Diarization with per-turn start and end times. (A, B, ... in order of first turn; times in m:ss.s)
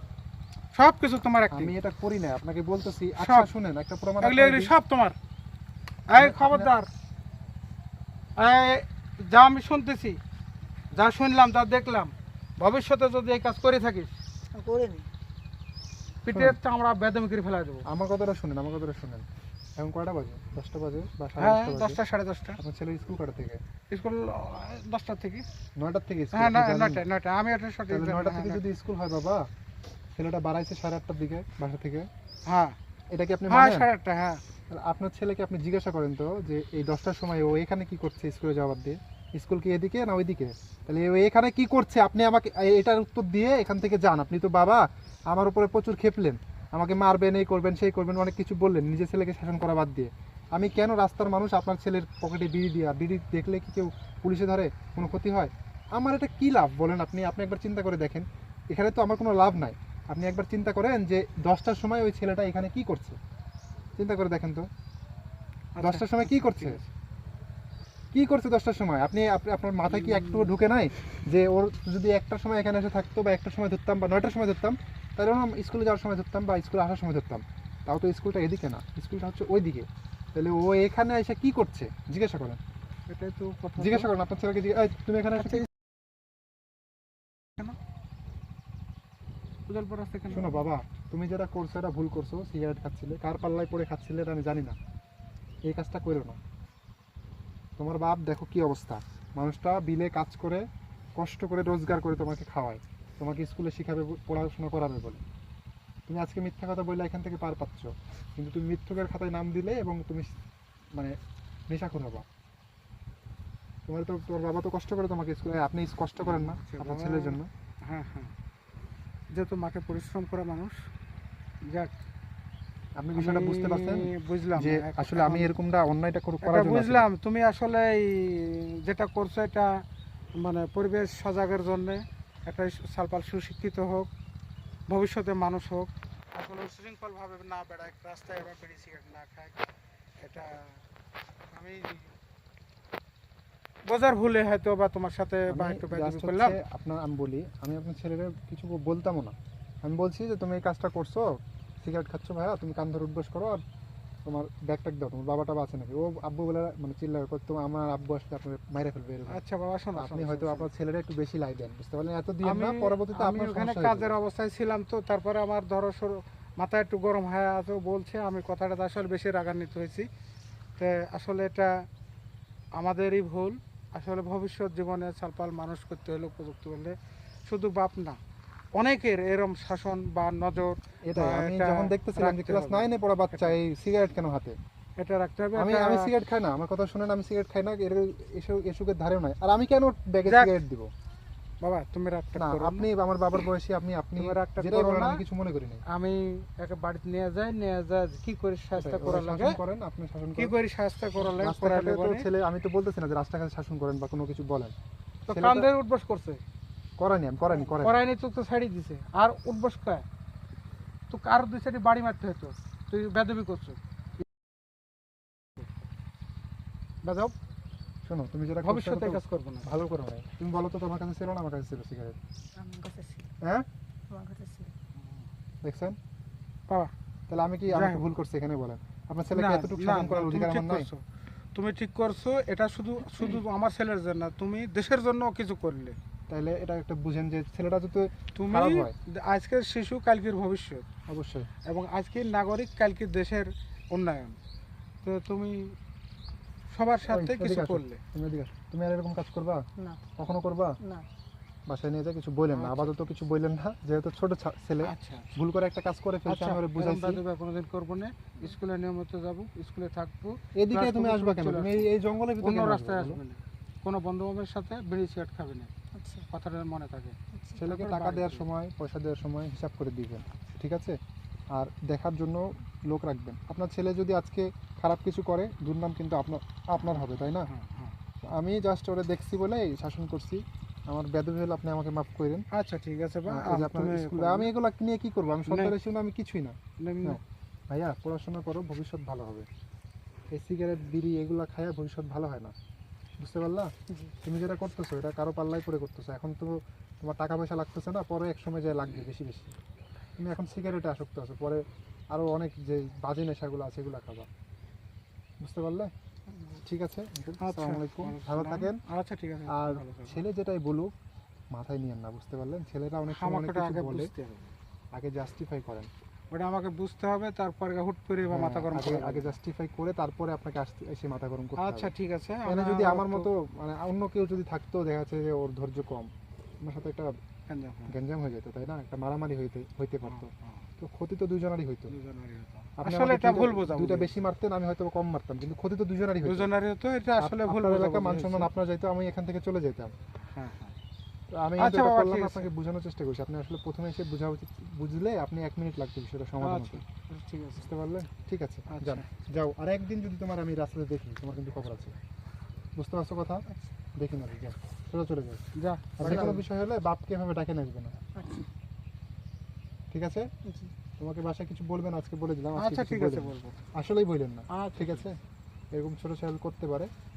0:00.8-0:01.7 A
0:01.5-0:04.7 B
0:03.2-0:03.5 A
0:04.2-0:05.2 A
0:06.1-0:06.9 A
0:06.2-0:06.7 B
0:08.4-0:10.2 A
0:10.9-0:14.2 A
0:14.5-0:15.1 C
0:16.2-0:17.8 A
0:16.3-0:16.6 B
0:17.8-0:19.3 B
0:19.8-0:22.0 B
0:21.4-0:22.6 A
0:22.6-0:23.6 B
0:23.9-0:25.4 A
0:25.8-0:27.0 B
0:26.3-0:28.6 A
0:27.9-0:29.4 B
0:30.2-0:32.1 B
0:32.5-0:32.8 A
0:33.1-0:33.9 B
0:33.5-0:34.4 A
0:34.7-1:03.2 B
1:04.0-1:04.7 B
1:05.8-1:06.9 A
1:05.8-1:06.8 B
1:08.1-1:22.6 B
1:09.9-1:10.6 A
1:23.1-1:24.1 A
1:23.8-1:25.7 B
1:25.4-1:25.6 A
1:29.7-1:30.6 A
1:30.3-1:34.8 B
1:35.7-1:36.4 B
1:37.8-1:40.7 B
1:41.2-1:45.2 B
1:46.1-1:50.3 B
1:51.7-1:52.2 B
1:53.9-1:57.5 B
1:56.2-1:58.3 A
1:59.3-2:00.8 A
2:01.7-2:01.9 A
2:03.0-2:07.1 B
2:03.2-2:05.5 A
2:06.4-2:09.7 A
2:10.4-2:14.1 A
2:14.9-2:19.6 A
2:20.2-2:20.8 A
2:21.5-2:22.1 A
2:23.9-2:26.6 A
2:25.5-2:31.2 B
2:31.8-2:33.6 B
2:34.3-2:39.4 B
2:39.3-2:40.7 A
2:40.0-2:44.2 B
2:42.4-2:50.1 A
2:50.8-2:51.7 A
2:52.8-2:57.0 A
2:57.5-2:58.2 A
2:58.8-3:03.6 A
3:01.1-3:04.6 B
3:05.0-3:06.1 A
3:05.6-3:10.9 B
3:10.3-3:10.6 A
3:11.6-3:12.9 A
3:12.4-3:15.8 B
3:14.2-3:15.2 A
3:15.9-3:19.6 A
3:18.8-3:20.5 B
3:20.4-3:22.3 A
3:21.2-3:24.7 B
3:25.3-3:26.4 A
3:25.3-3:25.7 B
3:27.0-3:28.0 B
3:27.6-3:30.0 A
3:31.1-3:33.8 A
3:37.0-3:37.3 A
3:38.0-3:42.2 B
3:38.6-3:39.7 A
3:42.6-3:43.3 C
3:44.1-3:44.7 C
3:45.6-3:46.0 B
3:47.3-3:50.9 B
3:47.7-3:48.1 A
3:49.3-3:51.0 A
3:51.6-3:56.0 A
3:56.3-3:58.9 B
3:58.4-4:00.9 A
4:01.1-4:01.5 B
4:01.7-4:04.4 A
4:05.0-4:05.8 A
4:06.7-4:08.0 A
4:07.0-4:09.6 B
4:10.2-4:10.8 B
4:10.8-4:11.1 C
4:11.7-4:17.2 B
4:12.5-4:13.0 A
4:14.8-4:15.3 A
4:16.3-4:21.9 A
4:20.6-4:23.2 B
4:22.4-4:25.7 A
4:26.0-4:26.3 C
4:26.3-4:28.4 A
4:27.3-4:27.6 C
4:27.6-4:31.0 B
4:31.6-4:37.5 B
4:36.8-4:38.0 A
4:38.4-4:42.4 B
4:42.5-4:44.5 A
4:43.3-4:47.2 B
4:45.5-4:45.8 A
4:46.8-4:47.2 A
4:47.7-4:49.5 B
4:50.3-4:52.5 B
4:53.2-4:53.7 B
4:53.9-4:54.1 C
4:54.2-4:59.5 B
5:00.2-5:04.3 B
5:05.4-5:05.9 B
5:06.7-5:08.8 B
5:07.4-5:10.2 A
5:09.5-5:10.9 B
5:11.5-5:14.1 B
5:13.1-5:14.5 A
5:14.9-5:15.9 B
5:16.3-5:19.4 A
5:18.2-5:21.9 B
5:21.6-5:23.3 A
5:22.4-5:27.1 B
5:27.5-5:27.9 A
5:27.9-5:30.3 B
5:30.0-5:30.6 A
5:30.8-5:31.9 B
5:31.9-5:34.1 A
5:32.8-5:36.5 B
5:36.2-5:38.5 A
5:37.2-5:39.9 B
5:40.4-5:40.8 A
5:41.3-5:46.8 B
5:41.6-5:42.5 A
5:46.4-5:47.7 A
5:47.6-5:52.0 B
5:48.7-5:49.1 A
5:52.8-5:53.4 B
5:54.0-5:55.4 B
5:55.6-5:56.5 A
5:56.0-5:58.0 B
5:58.2-5:58.5 C
5:59.9-6:00.3 B
6:00.4-6:00.7 C
6:01.0-6:05.2 B
6:02.6-6:03.6 A
6:04.5-6:05.1 A
6:05.7-6:06.9 B